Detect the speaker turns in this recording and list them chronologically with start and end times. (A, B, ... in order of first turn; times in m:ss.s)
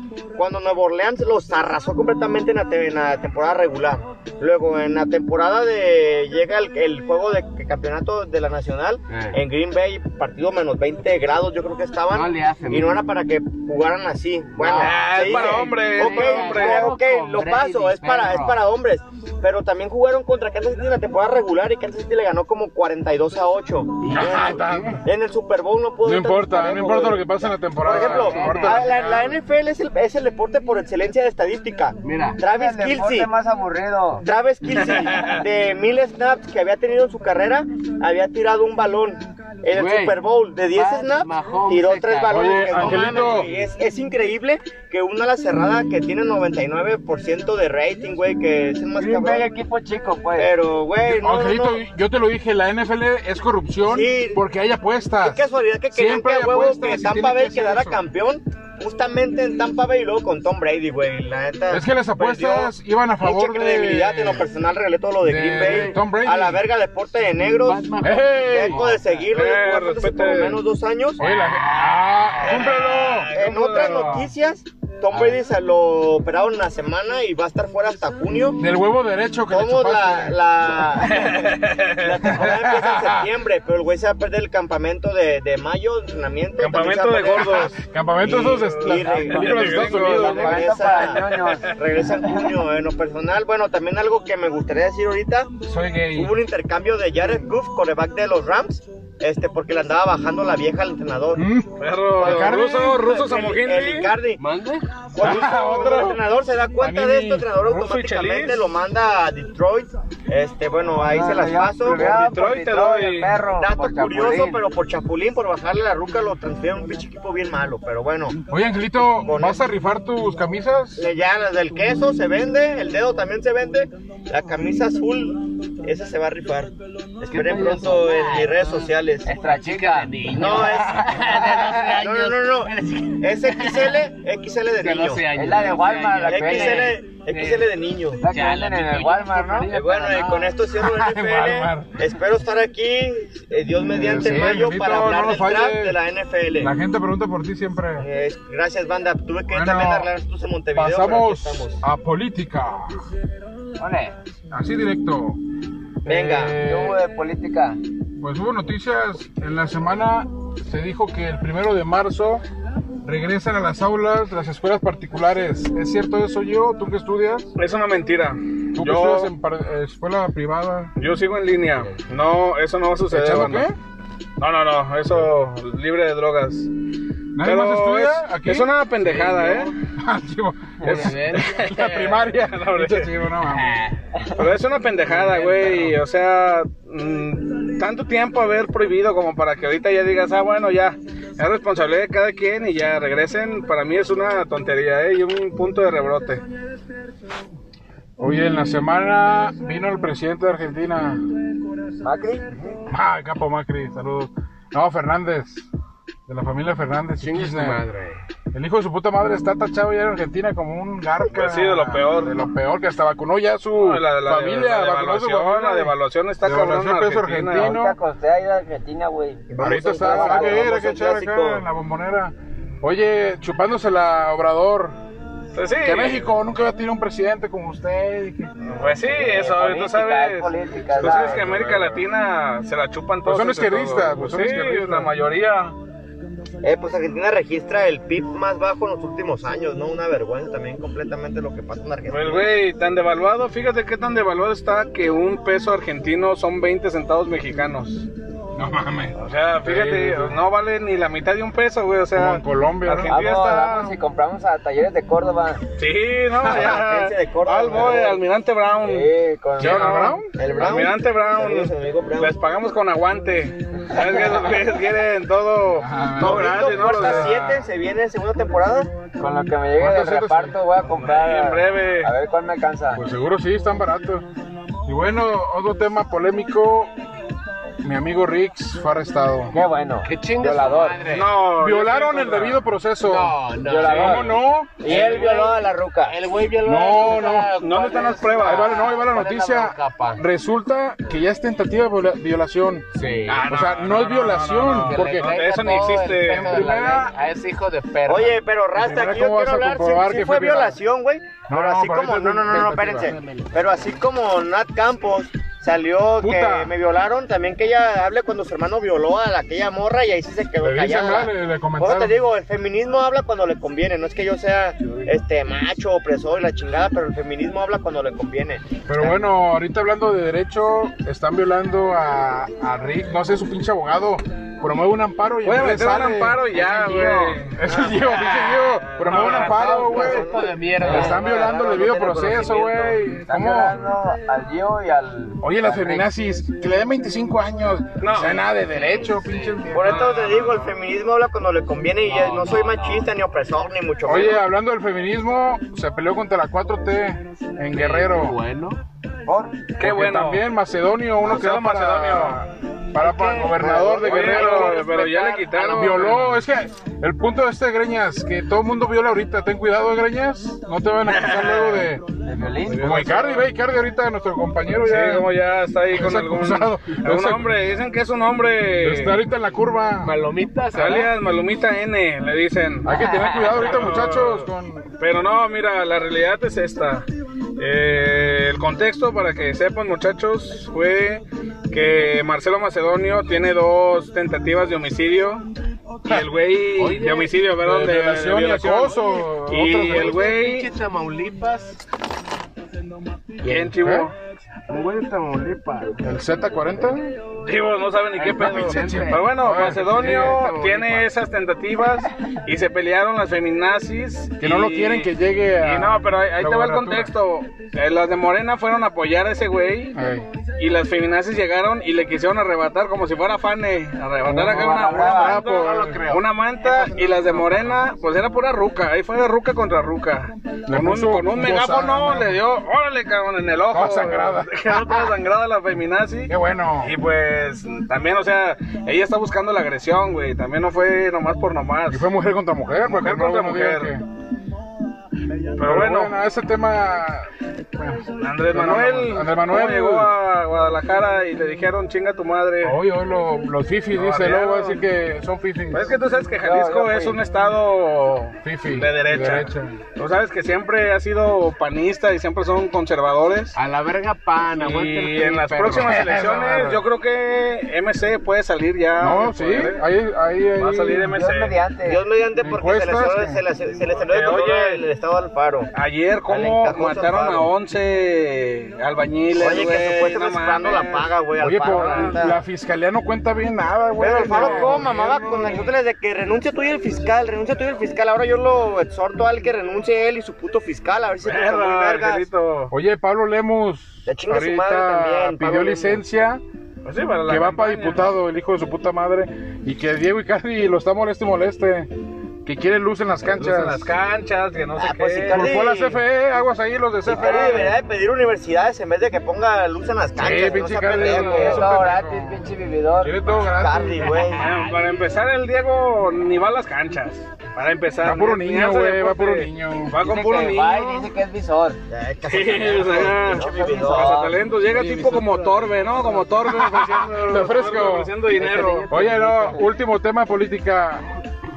0:00.4-0:27.1 A
0:09.1-0:09.4 B
0:12.1-0:13.1 B
0:14.6-0:18.6 B
0:14.7-0:16.9 C
0:24.0-0:25.0 B
0:24.1-0:25.0 D
0:26.0-0:29.3 D
0:26.5-0:27.5 E
0:27.8-0:33.3 A
0:27.9-0:29.2 B
0:28.8-0:29.3 C
0:32.0-0:32.4 B
0:32.4-0:34.2 E
0:34.2-0:49.5 A
0:34.9-0:35.4 C
0:39.8-0:40.2 B
0:40.7-0:43.5 B
0:42.3-0:43.5 D
0:49.0-0:50.5 E
0:50.4-0:51.8 A
0:51.0-0:55.4 D
0:53.8-0:54.4 A
0:55.2-1:07.9 A
0:55.9-0:58.0 D
1:01.7-1:04.5 D
1:05.2-1:06.6 D
1:07.6-1:09.2 B
1:08.0-1:08.8 D
1:08.4-1:11.2 A
1:09.3-1:10.6 C
1:11.2-1:14.2 D
1:12.4-1:14.3 C
1:12.4-1:12.7 A
1:13.3-1:18.6 A
1:18.6-1:21.1 D
1:19.5-1:35.5 A
1:21.1-1:22.2 C
1:22.3-1:23.3 D
1:26.6-1:27.8 C
1:27.4-1:30.7 D
1:29.0-1:31.8 C
1:30.1-1:31.7 E
1:35.6-1:36.3 D
1:36.2-1:41.4 A
1:41.4-1:43.0 D
1:41.8-1:44.2 C
1:42.2-1:44.4 A
1:44.4-1:44.9 B
1:45.1-1:52.3 A
1:45.2-1:46.2 D
1:46.8-1:47.5 D
1:47.6-1:48.7 C
1:51.0-1:54.6 E
1:51.9-1:53.4 C
1:53.6-1:58.4 A
1:58.4-2:01.1 D
1:59.2-1:59.6 A
2:01.0-2:09.3 A
2:07.3-2:14.0 B
2:09.2-2:11.9 E
2:10.3-2:15.2 A
2:14.8-2:17.7 B
2:15.3-2:17.0 E
2:16.3-2:18.2 A
2:18.2-2:20.6 E
2:18.2-2:20.5 B
2:19.7-2:26.7 A
2:20.7-2:22.1 D
2:23.9-2:26.0 D
2:26.6-2:28.1 D
2:28.0-2:31.8 A
2:29.5-2:30.1 D
2:30.8-2:33.0 D
2:33.8-2:34.2 E
2:34.5-2:35.4 D
2:36.0-2:36.6 A
2:36.0-2:37.8 E
2:36.1-2:37.0 D
2:38.2-2:42.4 D
2:43.0-2:47.5 D
2:47.6-2:49.3 C
2:48.8-2:50.9 D
2:51.0-2:53.7 C
2:53.1-2:53.8 D
2:54.4-2:56.7 C
2:57.3-2:58.7 D
2:57.4-2:59.7 C
2:59.0-2:59.7 B
3:00.0-3:03.8 D
3:00.8-3:01.8 B
3:01.3-3:03.1 C
3:03.4-3:04.2 B
3:04.4-3:16.4 C
3:05.1-3:06.0 B
3:18.2-3:21.3 D
3:22.0-3:22.6 E
3:22.9-3:25.7 D
3:26.3-3:27.8 D
3:27.2-3:28.2 B
3:28.5-3:38.0 D
3:31.3-3:32.4 C
3:33.7-3:37.8 C
3:37.5-3:40.7 E
3:39.5-3:41.6 A
3:39.6-3:45.0 D
3:45.6-3:46.4 C
3:45.8-3:48.5 D
3:48.6-3:55.8 C
3:49.0-3:51.5 E
3:50.9-3:52.1 D
3:53.2-3:55.1 D
3:56.6-4:02.6 A
4:02.1-4:08.1 C
4:08.6-4:10.4 D
4:09.2-4:14.0 C
4:12.2-4:13.2 D
4:13.0-4:15.6 E
4:15.8-4:27.7 C
4:16.4-4:18.2 A
4:18.8-4:20.9 E
4:19.6-4:20.3 D
4:20.4-4:22.4 A
4:25.8-4:27.6 D
4:26.2-4:28.9 A
4:29.2-4:33.0 E
4:29.8-4:30.6 D
4:30.8-4:32.1 C
4:32.9-4:34.3 D
4:34.9-4:36.9 D
4:37.8-4:39.6 D
4:39.5-4:41.0 E
4:40.0-4:41.4 B
4:41.0-4:42.6 C
4:41.6-4:44.8 D
4:43.0-4:50.2 B
4:43.6-4:46.2 E
4:43.9-4:44.2 C
4:46.6-4:47.6 D
4:47.6-4:48.8 C
4:48.4-4:52.9 D
4:52.9-4:53.5 B
4:53.3-4:56.7 C
4:53.4-4:57.2 D
4:54.7-4:58.4 B
4:58.1-5:18.7 A
4:58.8-5:00.8 D
5:01.5-5:03.2 D
5:02.9-5:03.9 B
5:06.2-5:06.8 D
5:10.6-5:12.2 D
5:18.9-5:33.8 D
5:25.4-5:27.6 C
5:27.6-5:30.5 A
5:28.4-5:30.0 C
5:29.2-5:31.5 B
5:30.8-5:36.1 E
5:35.4-5:40.1 D
5:38.0-5:38.4 C
5:38.7-5:39.7 B
5:39.7-5:44.4 A
5:39.7-5:40.8 C
5:42.1-5:43.1 B
5:44.0-5:48.4 D
5:47.7-5:48.8 B
5:49.3-5:49.6 E
5:49.8-5:50.5 C
5:49.8-6:02.0 D
5:51.2-5:52.4 C
5:53.0-5:56.4 B
5:53.6-5:54.4 E
5:54.0-5:56.3 C
6:01.1-6:01.9 C
6:02.2-6:03.1 E
6:02.6-6:03.5 C
6:02.8-6:05.3 D
6:04.7-6:09.2 C
6:05.9-6:07.6 D
6:08.8-6:10.2 D
6:10.0-6:11.2 B
6:10.7-6:12.9 C
6:12.8-6:14.9 D
6:13.5-6:14.5 C
6:15.0-6:17.1 C
6:17.6-6:25.4 C
6:26.0-6:30.7 C
6:26.8-6:27.0 D
6:26.8-6:27.4 B
6:27.6-6:30.2 D
6:29.7-6:31.8 B
6:33.4-6:34.2 C
6:33.5-6:34.1 D
6:34.7-6:36.0 B
6:36.0-6:37.1 D
6:37.4-6:50.0 C
6:38.2-6:41.1 B
6:38.4-6:40.0 D
6:44.4-6:47.1 D
6:49.9-6:50.3 D
6:50.6-7:12.1 C
6:54.3-6:55.4 E
6:54.3-6:56.2 D
6:57.0-6:57.8 D
7:00.7-7:02.4 D
7:03.7-7:05.2 D
7:06.3-7:07.0 D
7:11.9-7:14.0 D
7:12.9-7:13.9 C
7:15.6-7:20.2 D
7:15.6-7:16.2 C
7:18.2-7:22.8 C
7:22.6-7:25.9 D
7:23.9-7:24.8 C
7:25.7-7:33.6 C
7:26.4-7:27.2 E
7:28.4-7:29.8 D
7:33.6-7:36.3 B
7:34.6-7:39.8 C
7:35.6-7:36.8 D
7:39.0-7:41.1 D
7:40.6-7:41.6 C
7:41.0-7:42.0 E
7:41.8-7:45.7 A
7:42.4-7:43.4 D
7:43.9-7:44.8 C
7:45.7-7:51.1 C
7:46.3-7:47.5 A
7:49.3-7:52.4 A
7:51.4-7:55.7 D
7:51.6-7:52.2 C
7:54.0-8:02.3 A
7:54.1-7:55.7 C
8:01.2-8:02.7 C
8:02.7-8:06.4 D
8:04.1-8:06.0 A
8:06.8-8:08.1 C
8:07.3-8:11.9 D
8:12.4-8:13.9 D
8:13.2-8:15.6 C
8:14.8-8:16.0 A
8:15.3-8:17.8 D
8:17.1-8:21.8 A
8:17.2-8:17.6 C
8:20.2-8:24.2 D
8:20.9-8:21.8 C
8:21.0-8:23.4 E
8:23.4-8:24.5 A
8:24.0-8:31.1 C
8:24.2-8:25.0 B
8:28.0-8:30.0 D
8:30.0-8:31.8 E
8:31.9-8:34.2 A
8:32.3-8:39.1 C
8:33.2-8:34.4 E
8:34.7-8:36.3 B
8:36.4-8:38.2 D
8:38.3-8:39.7 B
8:38.9-8:41.2 D